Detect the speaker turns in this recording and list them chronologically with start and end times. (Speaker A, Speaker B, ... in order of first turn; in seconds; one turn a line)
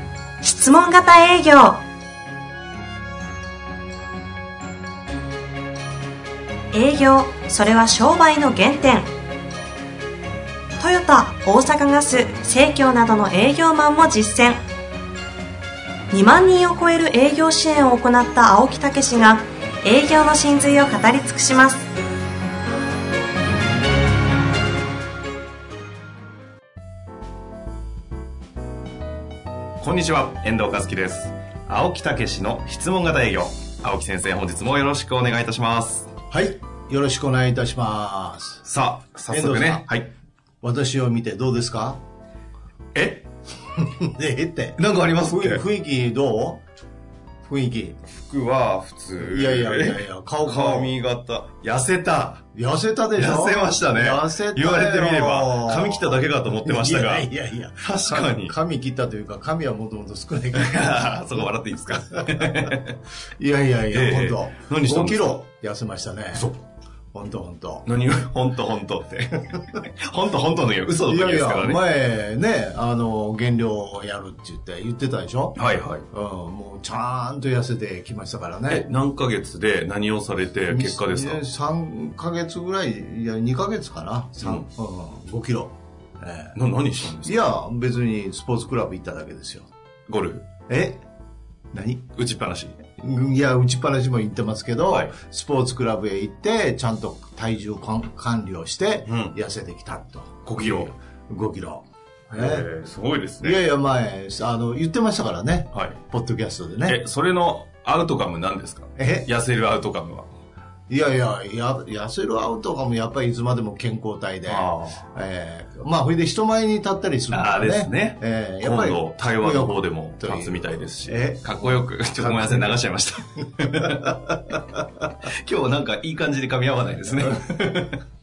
Speaker A: 0.4-1.8
Speaker A: 6.7-9.1
Speaker A: 10.8-14.6
Speaker A: 16.1-21.9
Speaker B: 29.8-36.1
Speaker C: 36.3-38.6
Speaker B: 38.6-40.1
Speaker C: 39.3-40.0
Speaker C: 40.6-42.0
Speaker B: 42.9-43.3
Speaker C: 43.8-46.6
Speaker B: 44.8-45.6
Speaker C: 47.4-48.0
Speaker B: 48.1-52.5
Speaker C: 49.2-50.9
Speaker C: 52.5-61.5
Speaker B: 53.2-57.3
Speaker B: 57.8-58.5
Speaker B: 60.5-63.0
Speaker C: 63.4-66.5
Speaker B: 63.9-65.4
Speaker C: 67.1-67.8
Speaker B: 67.8-71.8
Speaker C: 71.0-75.6
Speaker B: 75.5-76.0
Speaker C: 76.1-78.8
Speaker B: 78.7-81.4
Speaker C: 80.7-86.5
Speaker B: 84.4-84.7
Speaker B: 86.5-87.4
Speaker C: 87.2-89.7
Speaker B: 90.1-90.4
Speaker C: 90.7-91.0
Speaker C: 91.7-92.0
Speaker B: 92.1-92.8
Speaker C: 93.0-102.7
Speaker B: 99.0-99.3
Speaker B: 100.5-100.9
Speaker B: 102.3-103.6
Speaker C: 103.4-107.0
Speaker B: 105.7-106.0
Speaker B: 106.8-110.3
Speaker C: 109.0-109.3
Speaker C: 110.9-122.8
Speaker B: 114.5-115.0
Speaker B: 117.3-124.3
Speaker C: 123.6-124.8
Speaker B: 125.2-128.0